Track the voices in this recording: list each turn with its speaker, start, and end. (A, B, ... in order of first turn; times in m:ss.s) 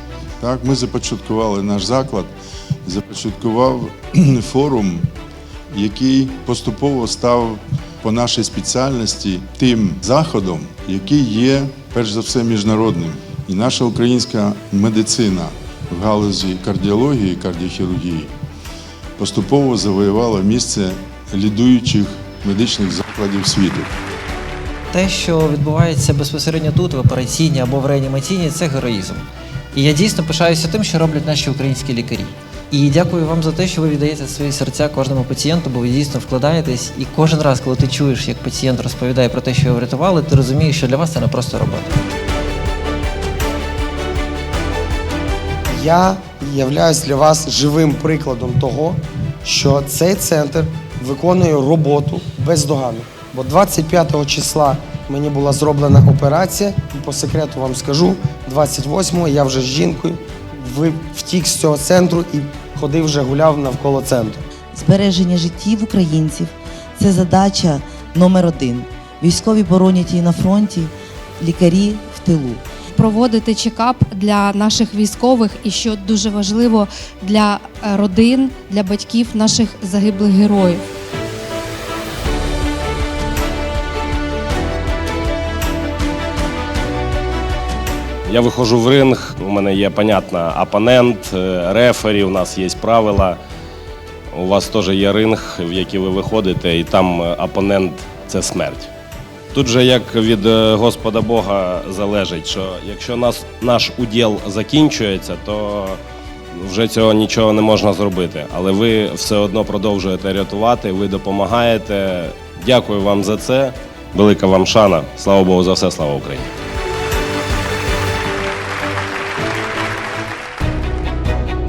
0:00.4-0:02.3 A
0:02.8-0:05.1 A
0:05.7-0:18.3 A
0:19.2-0:23.9 A
0:24.9-0:41.9 B
0:45.7-1:04.4 C
1:04.7-1:12.6 D
1:13.0-1:20.8 E
1:28.3-1:33.4 F
1:34.3-1:38.9 F
1:39.5-1:46.0 F
1:46.6-1:56.5 F